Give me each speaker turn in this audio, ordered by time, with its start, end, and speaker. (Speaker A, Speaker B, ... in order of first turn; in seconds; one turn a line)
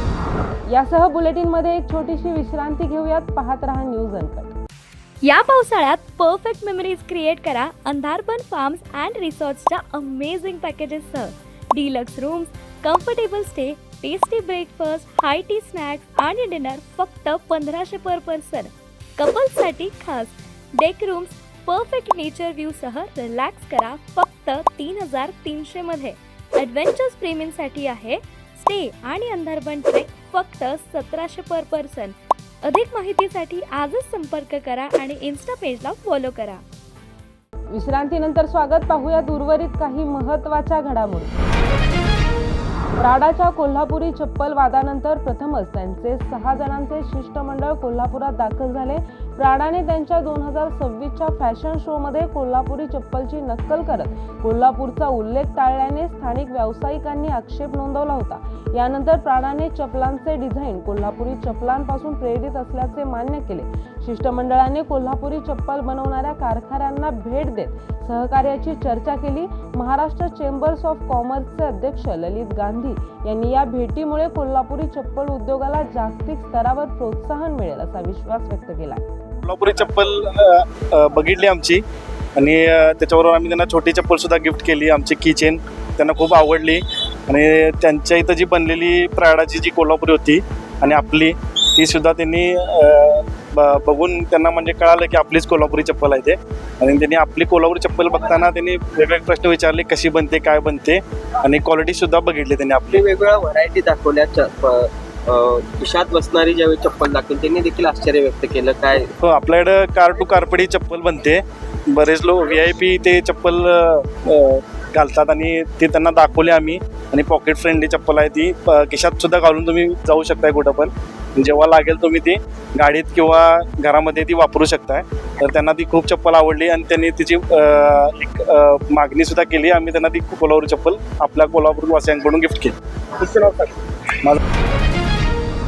Speaker A: 0.7-4.5
Speaker B: 5.2-36.6
Speaker A: 37.7-41.4
Speaker A: 43.0-79.0
Speaker C: 79.5-81.8
Speaker C: 82.4-103.0
Speaker D: 102.9-109.1
Speaker C: 109.2-133.7